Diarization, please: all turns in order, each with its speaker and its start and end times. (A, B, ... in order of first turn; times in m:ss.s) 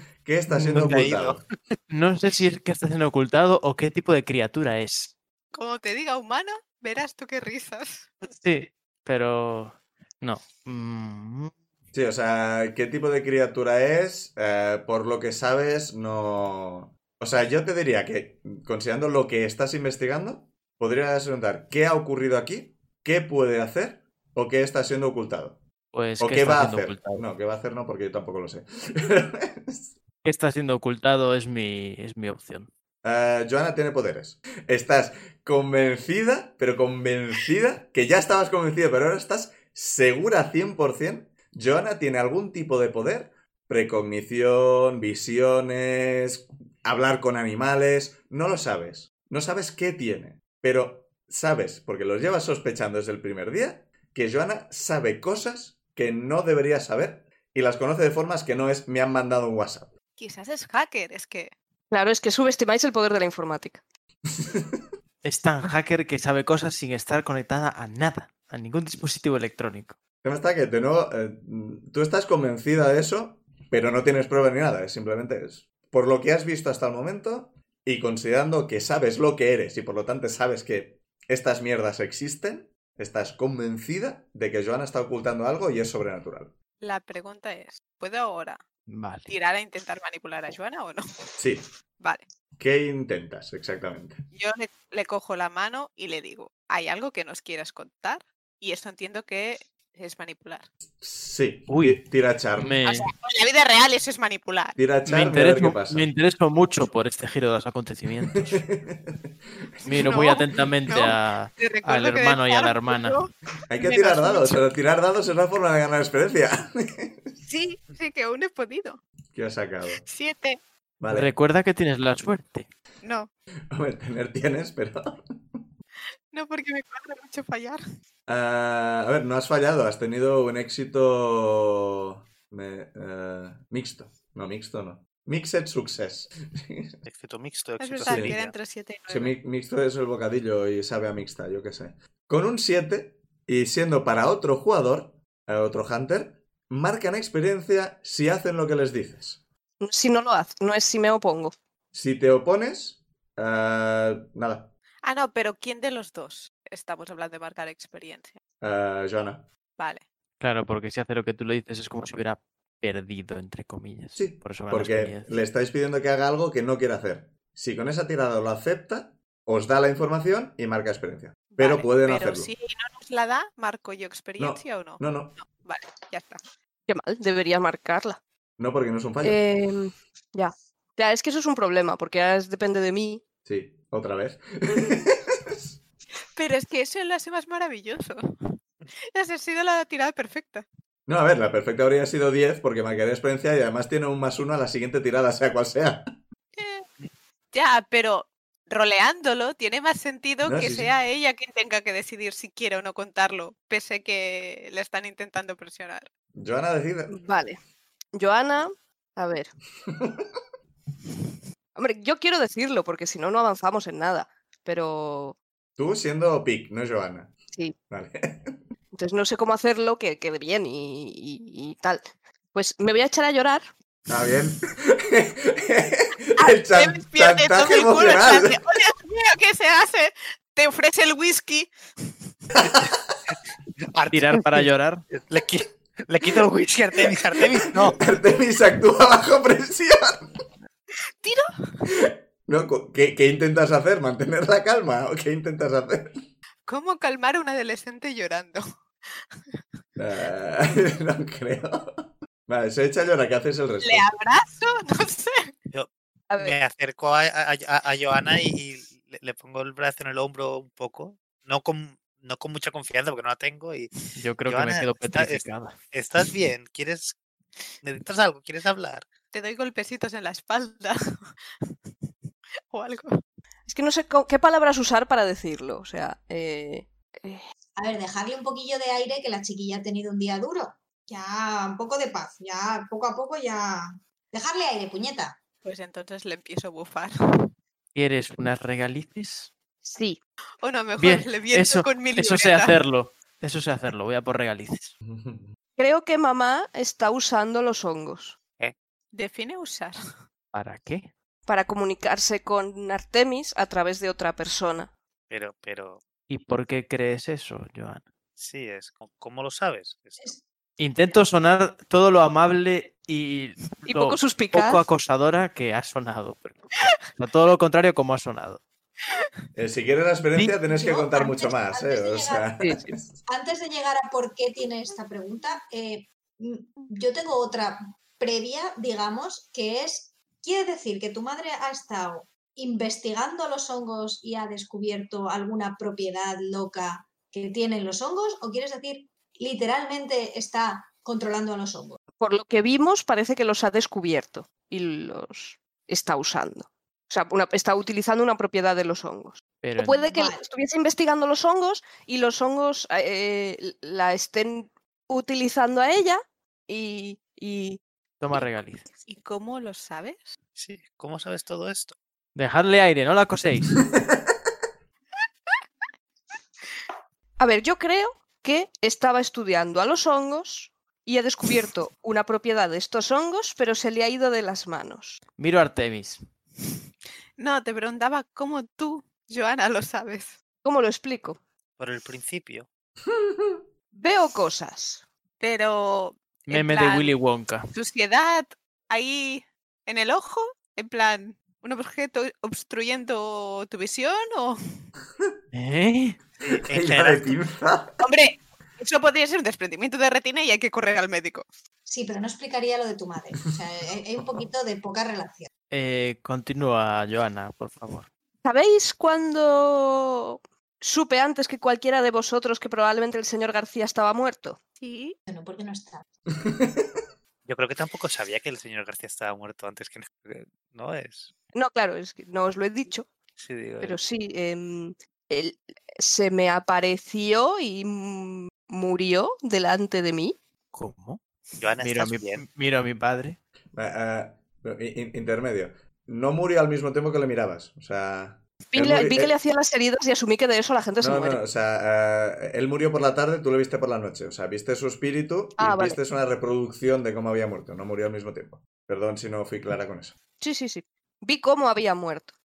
0:00.2-0:01.4 A
0:00.5-0:01.1 B
0:00.8-0:01.4 C
0:01.9-0:05.2 B
0:05.5-0:08.1 D
0:08.2-0:11.5 B
0:11.9-0:25.6 A
0:25.9-0:27.2 B
0:26.2-0:30.0 A
0:30.2-0:32.7 B
0:33.0-0:59.9 A
1:00.2-1:01.5 D
1:01.9-1:03.8 E
1:04.4-1:04.8 A
1:05.2-1:10.0 B
1:10.2-1:26.5 A
1:26.8-1:28.6 D
1:28.9-1:29.3 B
1:29.3-1:31.3 D
1:31.4-1:31.6 A
1:32.0-1:32.3 D
1:32.6-1:34.2 A
1:34.3-1:40.7 D
1:41.0-1:42.8 A
1:41.7-1:42.0 B
1:42.6-1:43.1 B
1:42.8-1:44.8 D
1:44.8-1:46.1 A
1:45.0-1:48.6 B
1:48.3-1:49.9 A
1:49.8-1:53.2 B
1:49.9-1:54.7 D
1:53.7-1:57.4 A
1:57.4-1:59.0 D
1:59.3-2:00.0 A
2:00.0-2:00.6 D
2:01.0-2:01.3 A
2:01.1-2:02.7 B
2:03.0-2:03.3 D
2:03.7-2:05.7 A
2:06.3-2:07.8 D
2:08.3-2:17.0 A
2:17.0-2:18.5 C
2:17.8-2:19.3 D
2:18.0-2:18.4 A
2:19.1-2:29.4 A
2:29.8-2:31.5 E
2:31.9-2:34.7 A
2:35.0-2:38.4 D
2:38.6-2:39.5 A
2:39.8-2:40.0 D
2:40.4-2:45.3 B
2:44.2-2:52.5 A
2:51.5-2:56.4 D
2:54.4-2:55.4 A
2:56.9-2:58.2 E
2:58.6-2:59.4 A
2:59.2-3:03.2 E
3:03.4-3:05.8 A
3:06.4-3:08.5 D
3:09.1-3:10.6 D
3:11.1-3:16.1 A
3:16.6-3:16.9 D
3:17.5-3:26.1 D
3:20.4-3:20.9 A
3:26.3-3:27.2 A
3:27.1-3:27.6 E
3:28.1-3:29.5 E
3:29.9-3:30.3 A
3:31.8-3:35.4 E
3:35.8-3:37.3 A
3:37.9-3:38.6 A
3:38.9-3:43.7 E
3:44.1-3:48.6 A
3:46.4-3:52.1 D
3:52.6-3:52.9 A
3:52.7-3:53.3 C
3:53.9-3:58.0 C
3:54.1-3:55.0 B
3:57.5-4:00.4 A
4:01.2-4:01.8 D
4:01.9-4:06.3 A
4:06.7-4:08.6 D
4:10.0-4:14.0 A
4:13.8-4:15.5 D
4:15.7-4:27.2 C
4:16.3-4:16.6 E
4:24.2-4:25.8 B
4:27.8-4:29.1 C
4:29.3-4:31.7 D
4:32.7-4:33.2 D
4:33.7-4:37.4 E
4:37.8-4:45.4 F
4:45.6-4:47.5 D
4:47.9-4:49.5 B
4:49.8-4:50.2 E
4:50.6-4:52.8 D
4:51.0-4:54.9 B
4:55.0-4:55.5 A
4:55.8-4:58.4 E
4:59.1-5:00.0 D
5:00.5-5:01.1 B
5:01.4-5:04.9 E
5:05.3-5:06.0 C
5:06.3-5:08.0 B
5:08.4-5:10.3 C
5:10.8-5:18.6 B
5:13.8-5:14.8 E
5:19.6-5:23.2 A
5:20.6-5:22.5 F
5:22.6-5:22.9 E
5:23.3-5:42.0 F
5:42.2-5:57.8 E
5:49.6-5:50.1 B
5:50.1-5:50.4 F
5:58.2-5:58.8 B
5:59.0-6:00.4 D
6:00.6-6:02.0 C
6:02.3-6:03.8 B
6:07.4-6:15.2 E
6:15.4-6:16.2 B
6:17.4-6:20.4 D
6:20.6-6:21.4 E
6:21.8-6:22.7 C
6:23.1-6:23.6 A
6:23.9-6:25.0 E
6:25.4-6:27.1 D
6:26.5-6:27.7 B
6:27.7-6:34.8 D
6:35.5-6:36.2 B
6:36.4-6:37.4 C
6:36.7-6:38.0 A
6:38.0-6:41.4 D
6:41.9-6:45.5 F
6:45.7-6:48.1 B
6:48.4-6:54.6 E
6:54.8-6:55.2 D
6:55.3-6:56.0 F
6:56.4-6:57.0 A
6:57.4-7:01.3 C
7:01.5-7:03.1 E
7:03.4-7:04.0 C
7:03.8-7:10.4 E
7:10.7-7:11.2 B
7:11.6-7:12.4 C
7:11.8-7:13.4 B
7:13.7-7:19.3 A
7:18.7-7:21.4 E
7:21.0-7:30.2 A
7:25.6-7:26.0 E
7:30.4-7:32.3 E